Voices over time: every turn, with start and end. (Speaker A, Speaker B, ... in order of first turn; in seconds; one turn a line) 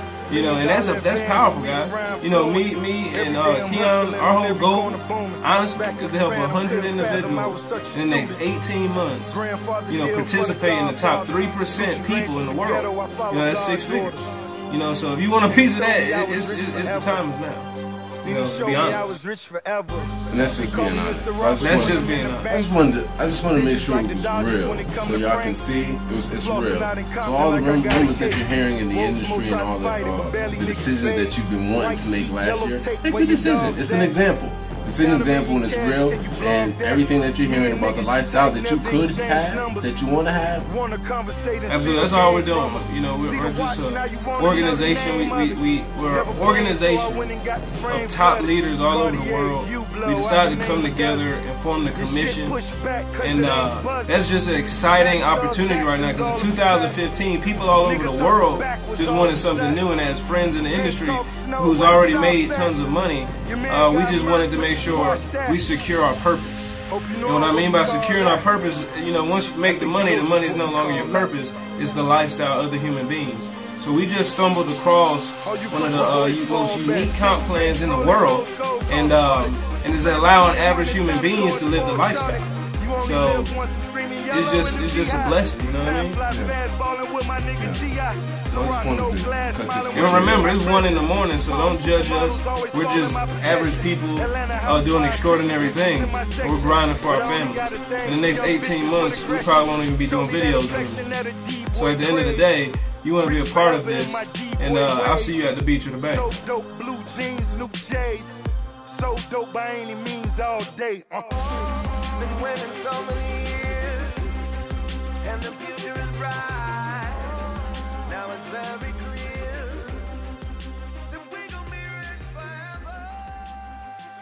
Speaker A: 0.3-14.1
Speaker B: 0.3-8.4
Speaker B: 9.3-14.6
Speaker A: 14.7-17.7
Speaker B: 15.4-17.3
Speaker A: 18.2-19.0
Speaker B: 18.2-22.8
Speaker C: 20.3-40.7
Speaker A: 21.6-22.5
Speaker B: 23.4-34.2
Speaker B: 34.9-51.3
Speaker A: 41.7-47.3
Speaker A: 47.9-52.6
Speaker B: 51.9-54.2
Speaker A: 53.2-82.4
Speaker B: 54.9-57.0
Speaker B: 57.7-59.9
Speaker B: 60.7-62.8
Speaker B: 63.4-65.6
Speaker B: 66.9-68.5
Speaker B: 69.6-71.3
Speaker B: 75.4-102.5
Speaker A: 83.0-83.5
Speaker A: 84.3-86.2
Speaker C: 86.3-86.5
Speaker C: 87.6-87.8
Speaker C: 88.5-90.5
Speaker A: 89.9-101.0
Speaker A: 101.7-106.3
Speaker B: 103.2-105.5
Speaker B: 106.0-111.5
Speaker D: 111.6-114.6
Speaker D: 115.2-120.2
Speaker D: 121.1-123.4